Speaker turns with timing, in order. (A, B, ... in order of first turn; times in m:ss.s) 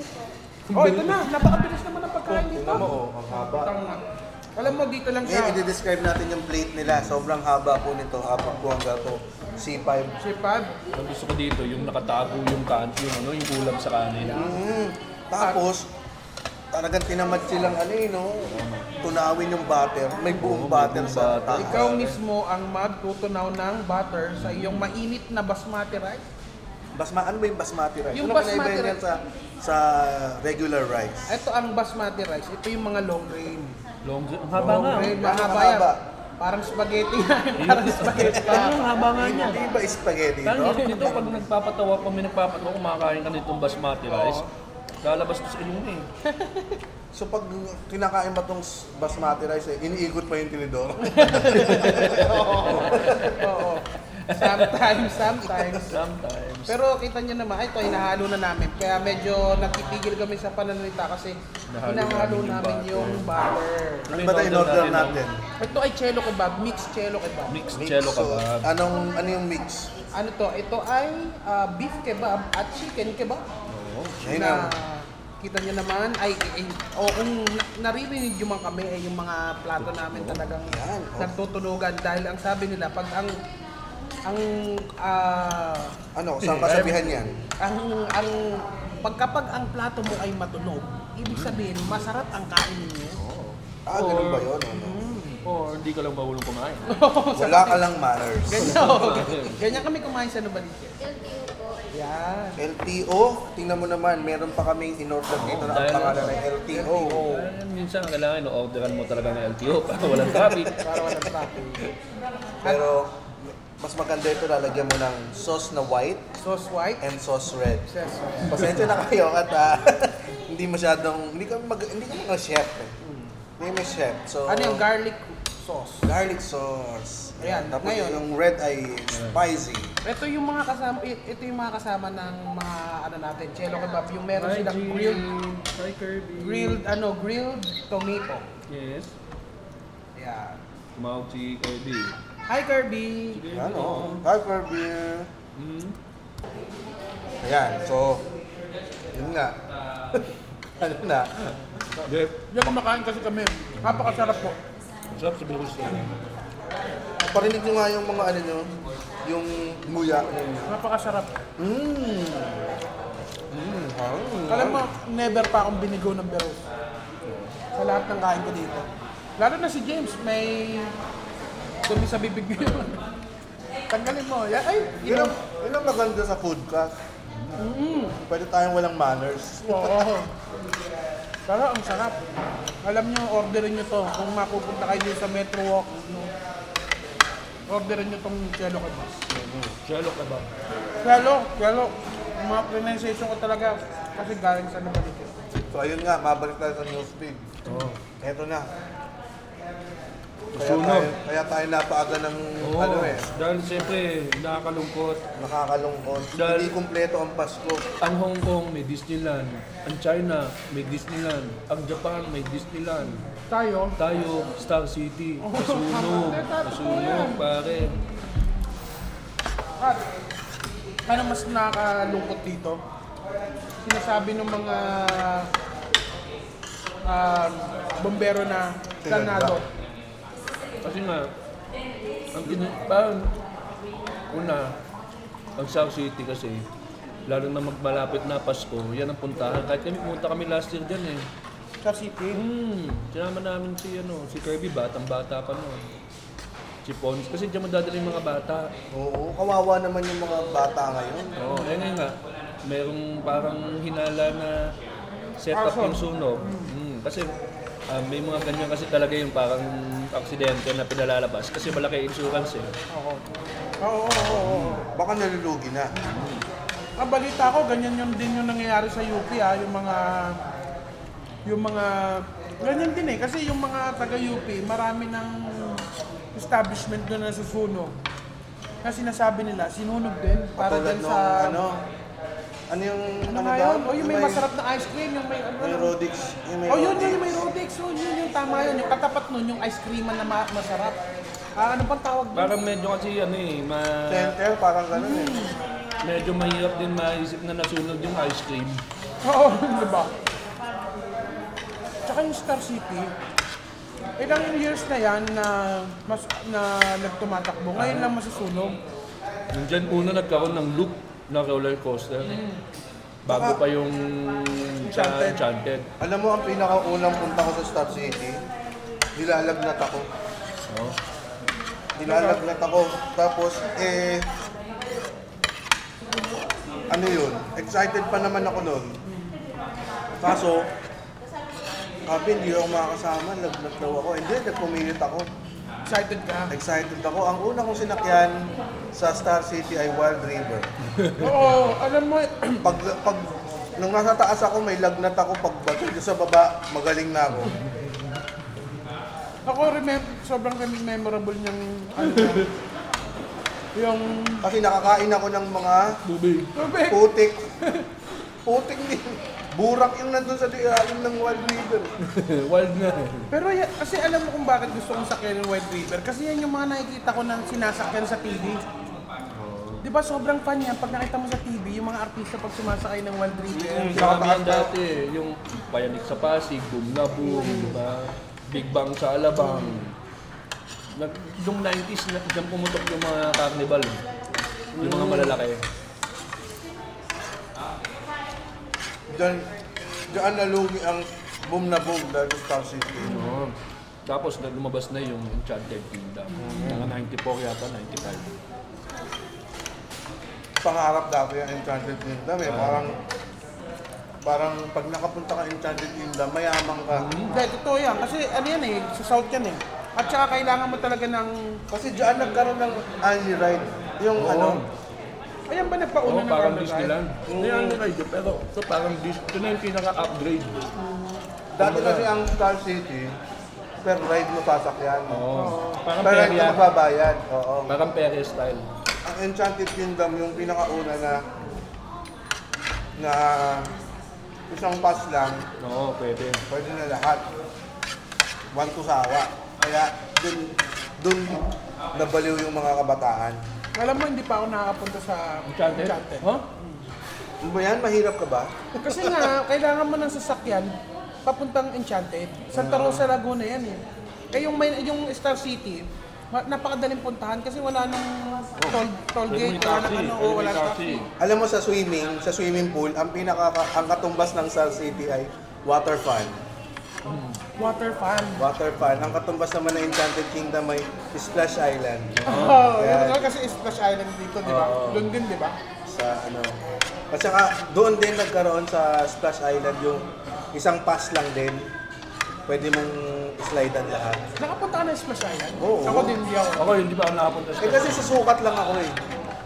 0:00.7-0:01.2 A
0:00.7-0:04.0 B
0:02.3-0:03.7 C
0:04.6-0:05.6 B
0:05.2-0:10.2 C
0:06.8-0:07.2 A
0:10.2-0:10.7 B
0:10.9-0:14.5 A
0:14.3-0:14.6 B
0:14.3-0:15.9 C
0:16.7-0:21.9 C
0:18.5-0:18.9 A
0:20.4-0:22.2 A
0:21.6-0:26.3 B
0:24.4-0:24.9 A
0:26.9-0:31.3 C
0:28.1-0:29.0 B
0:31.3-0:33.8 B
0:34.0-0:35.2 A
0:34.6-0:36.0 C
0:34.6-0:38.8 B
0:37.6-0:39.6 A
0:38.5-0:40.8 C
0:40.4-0:44.4 A
0:40.8-0:41.3 B
0:44.1-0:44.5 B
0:45.0-0:46.1 A
0:46.2-0:46.8 B
0:47.1-0:53.3 C
0:51.0-0:56.0 B
0:51.5-0:53.4 A
0:54.3-0:56.8 A
0:56.7-1:04.1 B
1:01.7-1:03.3 A
1:04.1-1:05.2 A
1:04.2-1:05.4 C
1:05.6-1:07.6 B
1:07.5-1:08.7 A
1:07.7-1:09.9 C
1:10.1-1:13.5 B
1:13.7-1:14.2 A
1:14.2-1:14.7 C
1:14.3-1:23.4 B
1:19.8-1:20.4 A
1:20.7-1:21.3 C
1:24.2-1:26.0 B
1:26.1-1:27.4 C
1:26.4-1:27.0 A
1:27.6-1:33.2 B
1:31.3-1:31.6 A
1:33.1-1:34.5 A
1:33.8-1:35.1 C
1:34.7-1:35.4 B
1:35.3-1:36.9 A
1:36.9-1:37.8 B
1:37.4-1:38.8 C
1:38.5-1:40.9 B
1:38.6-1:39.6 A
1:41.9-1:42.6 B
1:42.6-1:47.2 C
1:45.3-1:50.8 A
1:46.8-1:47.5 B
1:50.1-1:50.7 C
1:50.8-1:51.8 B
1:52.6-1:56.3 C
1:56.4-1:57.0 B
1:57.0-1:57.9 C
1:57.9-1:58.6 B
1:58.4-2:02.9 C
2:03.0-2:03.3 B
2:03.6-2:04.8 C
2:04.5-2:06.1 B
2:06.0-2:09.9 C
2:07.4-2:08.2 B
2:09.1-2:09.4 A
2:10.0-2:15.3 B
2:14.4-2:16.8 A
2:16.4-2:18.5 B
2:18.7-2:19.1 A
2:20.2-2:20.6 B
2:20.9-2:22.2 A
2:22.5-2:23.4 B
2:23.3-2:24.2 A
2:23.5-2:25.3 C
2:25.6-2:26.0 A
2:27.4-2:28.2 C
2:29.1-2:29.6 C
2:30.1-2:31.3 C
2:32.0-2:32.5 A
2:32.5-2:34.6 B
2:35.1-2:36.1 A
2:37.3-2:38.7 C
2:39.2-2:40.8 C
2:40.7-2:41.3 B
2:41.6-2:42.6 C
2:43.5-2:44.9 C
2:44.5-2:46.6 B
2:47.8-2:48.9 B
2:49.4-2:50.9 B
2:51.9-2:53.0 B
2:53.9-2:55.4 B
2:55.0-2:57.0 C
2:57.3-2:57.6 A
2:57.6-2:58.2 B
2:58.3-2:59.9 C
2:59.6-3:00.3 B
3:01.5-3:02.2 B
3:02.8-3:06.3 B
3:07.7-3:09.2 B
3:09.3-3:09.8 C
3:09.8-3:10.5 A
3:11.0-3:15.3 B
3:15.7-3:17.6 C
3:17.6-3:18.0 A
3:18.2-3:18.7 C
3:20.5-3:21.1 A
3:20.6-3:23.3 C
3:22.6-3:25.2 A
3:25.4-3:27.8 C
3:26.3-3:26.7 A
3:28.0-3:33.2 A
3:33.4-3:34.0 B
3:34.0-3:38.0 A
3:35.4-3:37.4 B
3:39.8-3:40.0 B
3:41.1-3:42.8 B
3:43.8-3:45.5 B
3:47.0-3:49.7 B
3:49.0-3:49.6 C
3:50.8-3:51.3 A
3:52.3-3:53.3 A
3:54.3-3:54.8 A
3:55.6-3:56.6 A
3:57.2-4:01.3 A
4:01.8-4:02.4 B
4:02.3-4:05.9 A
4:06.8-4:08.7 A
4:08.9-4:11.3 C
4:11.4-4:14.7 A
4:11.5-4:11.8 B
4:15.4-4:17.3 A
4:15.5-4:16.7 B
4:17.9-4:22.7 A
4:22.9-4:23.3 B
4:23.8-4:24.8 B
4:24.2-4:25.9 C
4:24.4-4:24.8 A
4:26.0-4:26.4 A
4:27.0-4:30.4 B
4:31.4-4:38.0 B
4:38.8-4:41.6 B
4:40.5-4:41.8 C
4:42.7-4:44.4 C
4:43.3-4:45.9 B
4:45.6-4:47.4 C
4:46.7-4:51.0 B
4:51.6-4:52.5 B
4:52.3-4:54.4 A
4:54.1-4:55.4 C
4:54.9-4:55.6 B
4:56.0-4:58.8 A
4:59.2-5:00.1 B
5:02.0-5:03.1 B
5:04.2-5:08.8 B
5:07.8-5:08.1 A
5:09.5-5:12.4 A
5:12.3-5:12.6 B
5:13.2-5:15.9 A
5:13.3-5:13.6 C
5:14.8-5:15.4 B
5:16.0-5:18.4 C
5:19.2-5:20.1 C
5:20.7-5:21.0 A
5:22.0-5:24.3 C
5:22.0-5:22.4 B
5:26.9-5:29.0 C
5:30.2-5:30.7 C
5:32.1-5:35.3 C
5:35.9-5:36.5 B
5:36.5-5:40.7 C
5:40.9-5:41.5 A
5:41.2-5:42.7 B
5:42.6-5:47.5 C
5:47.4-5:47.9 A
5:49.4-5:52.5 B
5:52.0-5:52.5 A
5:53.8-5:54.4 B
5:54.4-5:56.0 C
5:56.0-5:56.5 A
5:56.5-5:57.1 B
5:56.9-5:57.4 C
5:58.4-6:01.9 C
6:02.0-6:03.3 A
6:03.3-6:08.6 B
6:09.4-6:09.8 A
6:09.8-6:14.0 B
6:13.5-6:14.7 C
6:13.8-6:20.0 A
6:17.2-6:17.8 B
6:19.4-6:19.8 B
6:20.9-6:24.0 A
6:24.8-6:25.3 B
6:24.8-6:25.6 A
6:29.1-6:29.5 C
6:30.1-6:33.2 C
6:33.0-6:33.5 A
6:33.0-6:33.4 B
6:34.0-6:38.3 A
6:36.4-6:36.7 B
6:36.4-6:36.9 C
6:40.6-6:43.0 C
6:42.4-6:42.9 A
6:44.2-6:47.1 C
6:46.9-6:47.4 A
6:47.3-6:51.6 B
6:51.7-6:54.6 C
6:54.2-6:54.7 A
6:55.5-6:56.9 B
6:56.0-7:00.7 A
6:57.3-6:57.8 C
7:00.8-7:01.2 B
7:01.5-7:03.2 C
7:01.6-7:02.1 A
7:03.8-7:05.2 C
7:05.1-7:06.6 A
7:05.3-7:05.8 B
7:06.0-7:07.8 C
7:07.7-7:08.6 A
7:09.0-7:11.2 C
7:13.0-7:13.7 C
7:14.5-7:15.4 C
7:15.6-7:16.4 A
7:16.5-7:17.2 C
7:18.5-7:23.4 C
7:23.8-7:26.8 B
7:25.5-7:26.4 A
7:27.4-7:29.3 C
7:28.8-7:30.7 B
7:31.2-7:33.8 B
7:32.5-7:33.0 C
7:34.3-7:41.1 B
7:38.6-7:41.1 A
7:41.2-7:46.4 C
7:47.0-7:47.4 A
7:47.6-7:48.4 B
7:48.4-7:53.3 C
7:52.2-7:52.7 A
7:52.2-7:55.6 B
7:54.5-7:55.0 A
7:55.9-7:56.6 C
7:57.1-8:01.6 C
8:02.5-8:04.2 C
8:04.4-8:06.8 B
8:05.6-8:06.2 C
8:06.6-8:08.2 A
8:07.6-8:09.0 C